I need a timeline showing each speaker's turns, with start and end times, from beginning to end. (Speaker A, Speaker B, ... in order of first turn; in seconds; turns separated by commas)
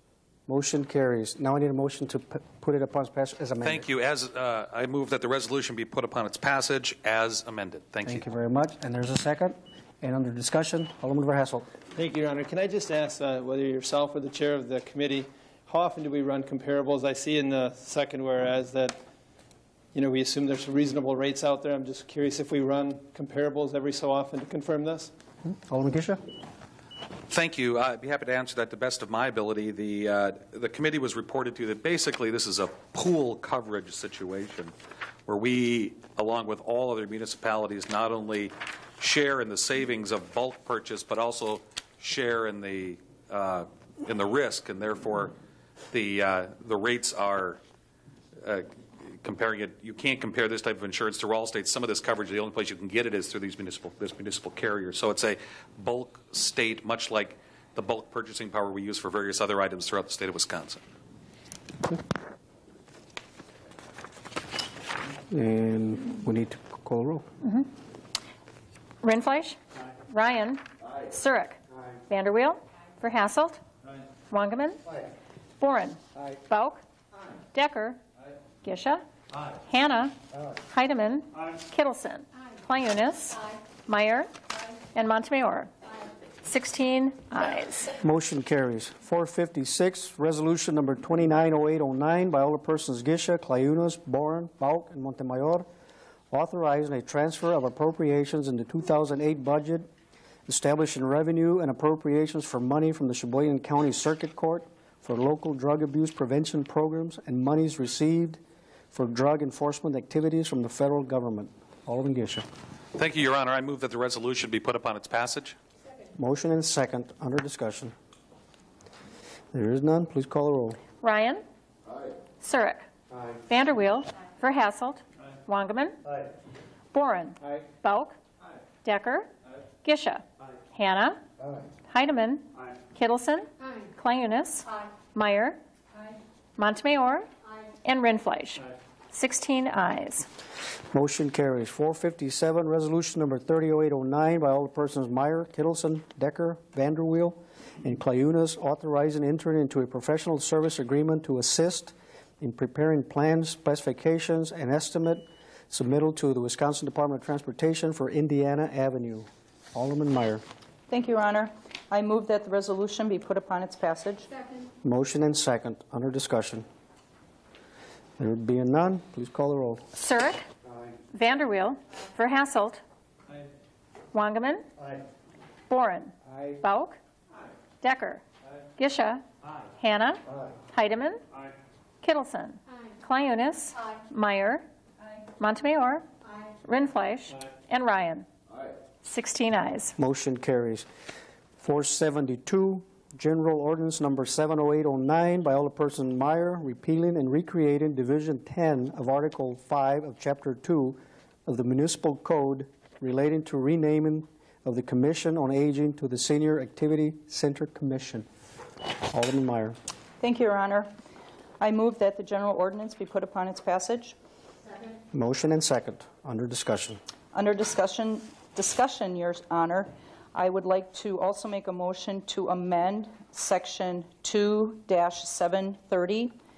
Speaker A: 0.5-3.9, Speaker B: 3.6-8.3, Speaker A: 8.0-11.7, Speaker C: 11.9-19.0, Speaker C: 19.9-25.1, Speaker A: 25.4-26.2, Speaker B: 27.3-34.7, Speaker B: 35.2-45.3, Speaker B: 45.9-47.6, Speaker B: 48.4-60.8, Speaker A: 65.3-67.2, Speaker D: 67.4-67.7, Speaker D: 69.0-71.6, Speaker D: 72.1-73.6, Speaker D: 74.3-74.8, Speaker D: 75.6-76.8, Speaker D: 77.5-78.0, Speaker D: 78.6-79.0, Speaker D: 79.6-80.1, Speaker D: 80.7-84.3, Speaker D: 84.9-85.7, Speaker D: 86.4-87.9, Speaker A: 88.0-95.7, Speaker A: 96.3-99.9, Speaker A: 100.5-108.4, Speaker A: 108.9-112.5, Speaker B: 112.9-115.5, Speaker A: 116.2-117.9, Speaker A: 119.5-120.8, Speaker D: 121.0-121.4, Speaker D: 122.4-122.8, Speaker D: 123.5-126.0, Speaker D: 126.9-128.2, Speaker D: 128.8-129.3, Speaker D: 129.8-131.2, Speaker D: 131.9-135.6, Speaker D: 136.6-137.3, Speaker D: 137.8-140.3, Speaker A: 140.9-160.4, Speaker E: 160.9-164.3, Speaker A: 164.8-166.7, Speaker A: 168.2-169.8, Speaker D: 169.9-170.4, Speaker D: 171.1-172.8, Speaker D: 174.1-174.6, Speaker D: 175.7-177.0, Speaker D: 177.8-178.2, Speaker D: 178.8-179.2, Speaker D: 179.8-181.2, Speaker D: 182.0-184.6, Speaker D: 185.4-186.1, Speaker D: 186.6-188.2, Speaker D: 189.0-189.9, Speaker A: 190.0-190.9, Speaker A: 191.6-208.3, Speaker A: 209.1-209.8, Speaker E: 210.2-210.9, Speaker E: 211.6-214.1, Speaker A: 215.1-217.0, Speaker E: 217.3-226.3